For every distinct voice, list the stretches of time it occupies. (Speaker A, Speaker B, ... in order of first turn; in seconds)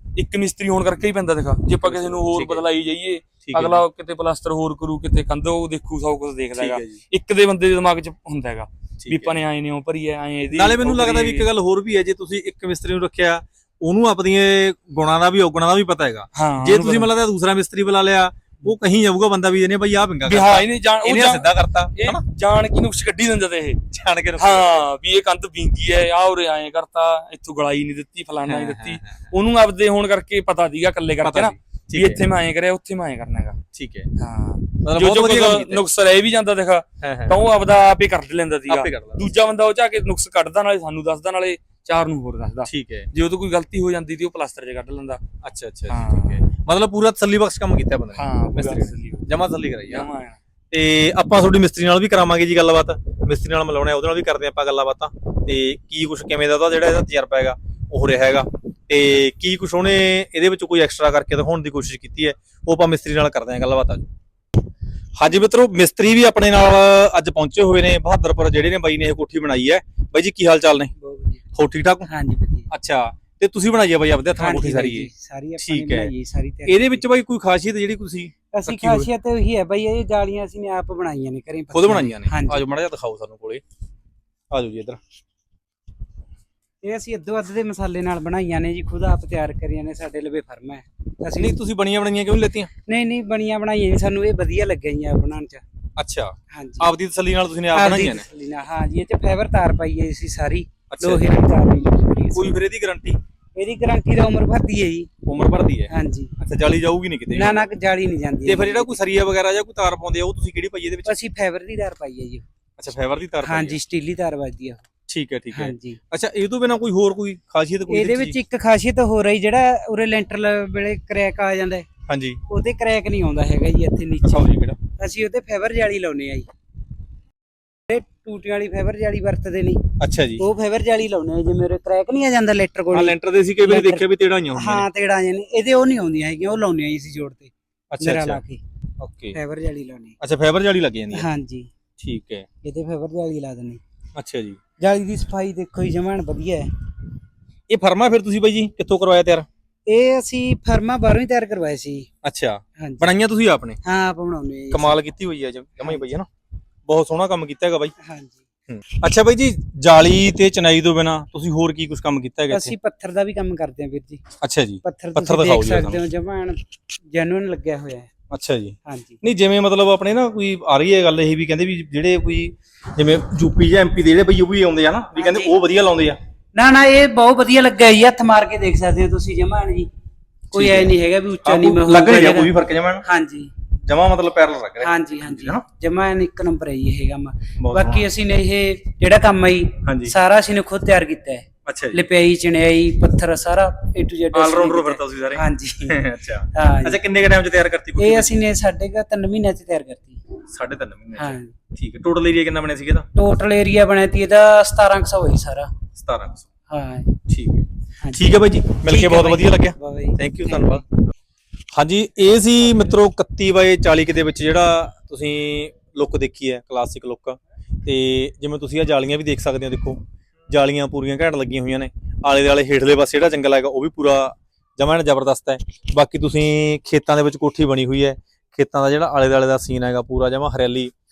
Speaker A: 0.1-11.5, 16.3-17.1, 20.2-23.8, 24.4-33.6, 34.1-45.2, 45.9-46.4, 48.1-50.4
Speaker B: 1.8-2.7, 3.4-3.8, 6.5-7.0, 9.0-9.4, 10.5-22.2, 23.9-24.8, 28.5-29.3, 31.2-32.2, 33.7-34.1, 34.8-35.8, 37.0-37.4, 38.7-39.3, 42.6-43.1, 45.4-50.1, 50.7-64.1, 65.2-70.9, 71.5-72.1, 72.7-76.1, 76.7-79.1, 81.7-83.6, 84.5-85.0, 91.4-92.7, 96.0-98.3, 100.9-101.3, 102.3-103.2, 105.2-107.6, 108.5-111.2, 112.8-113.8, 115.1-118.4, 122.1-122.4, 124.2-124.8, 130.0-130.5, 132.9-134.9, 137.9-138.4, 139.0-139.4, 140.2-141.3, 142.0-142.5, 144.1-144.6, 147.7-149.4, 152.2-153.8, 154.7-156.3, 156.9-157.9, 158.7-162.7, 164.4-166.0, 168.3-176.2, 180.5-183.0, 183.8-185.6, 187.6-188.1, 189.8-190.1, 191.7-192.0, 194.3-198.4, 200.5-203.1, 205.9-206.5, 207.3-210.8, 211.7-230.9
Speaker C: 71.0-71.4, 72.0-72.7, 74.4-77.0, 78.5-82.6, 86.8-91.6, 92.8-95.6, 96.5-96.9, 97.7-102.5, 103.5-105.1, 105.9-106.3, 107.3-109.0, 111.0-112.5, 113.4-114.8, 115.5-116.0, 117.9-121.8, 122.5-126.5, 127.9-138.6, 139.3-140.2, 141.1-141.7, 142.6-143.8, 144.8-146.7, 149.9-152.1, 152.8-153.1, 153.8-155.0, 158.0-158.4, 162.5-164.2, 164.8-166.6, 167.1-168.1, 168.8-169.2, 175.1-175.6, 176.5-179.9, 180.5-183.5, 184.8-196.0, 196.5-197.0, 198.0-200.2, 201.1-201.5, 203.1-205.7, 206.7-207.1, 208.0-210.8